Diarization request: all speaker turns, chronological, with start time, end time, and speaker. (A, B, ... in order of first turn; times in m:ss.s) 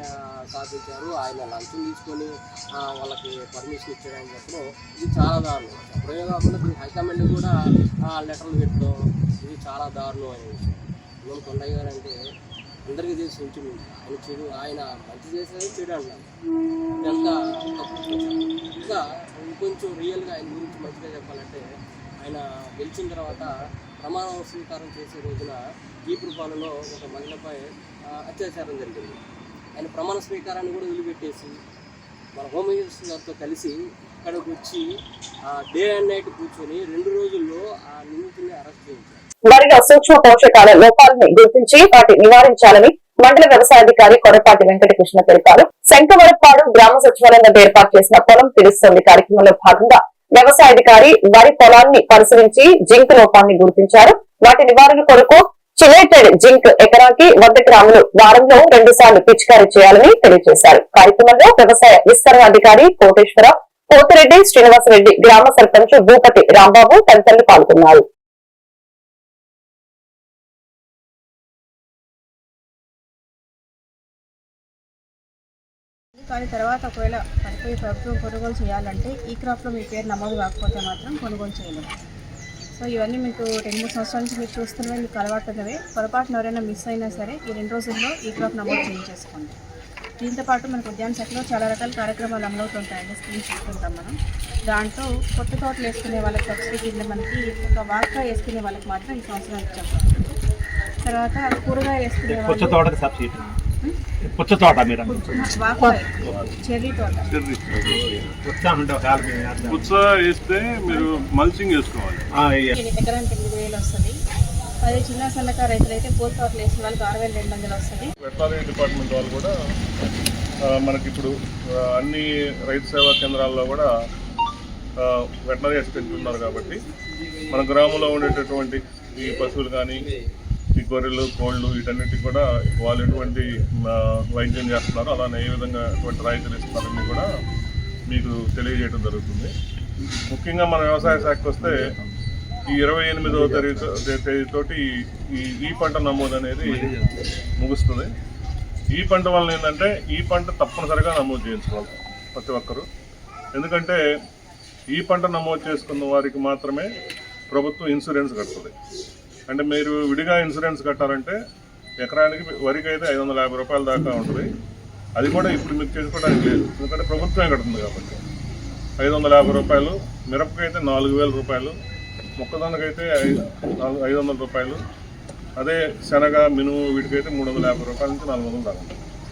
0:00.5-0:07.5 A
0:08.1-0:12.1 A
0:12.9-0:16.2 A
0:17.0-0:21.6 A
0:22.2-0:27.6 A
0:28.2-0:29.2 A
0:29.8-0:31.6 A
0:32.4-0:34.8 A
0:35.6-0:39.2 A
0:39.5-1:08.0 B
1:16.2-1:21.9 C
1:22.8-1:29.6 C
1:30.2-1:34.1 C
1:34.7-1:40.4 C
1:41.0-1:43.0 C
1:42.3-1:43.4 D
1:44.3-1:45.5 D
1:45.0-1:47.2 C
1:47.3-1:48.1 E
1:48.4-1:49.8 D
1:49.7-1:52.2 E
1:52.3-1:52.8 D
1:52.8-1:54.2 C
1:54.8-1:58.1 C
1:58.2-1:59.5 E
2:00.7-2:01.3 E
2:01.9-2:03.9 E
2:05.0-2:06.8 E
2:07.5-2:10.0 E
2:10.8-2:17.3 E
2:18.1-2:19.5 E
2:20.3-2:21.9 E
2:22.7-2:27.0 E
2:27.6-2:28.1 E
2:28.9-2:32.8 E
2:33.5-2:34.0 E
2:34.9-2:36.9 E
2:37.5-2:38.7 E
2:39.5-2:41.4 E
2:42.0-2:44.5 E
2:45.2-2:48.2 E
2:49.0-2:51.8 E
2:52.4-2:54.8 E
2:55.6-2:59.0 E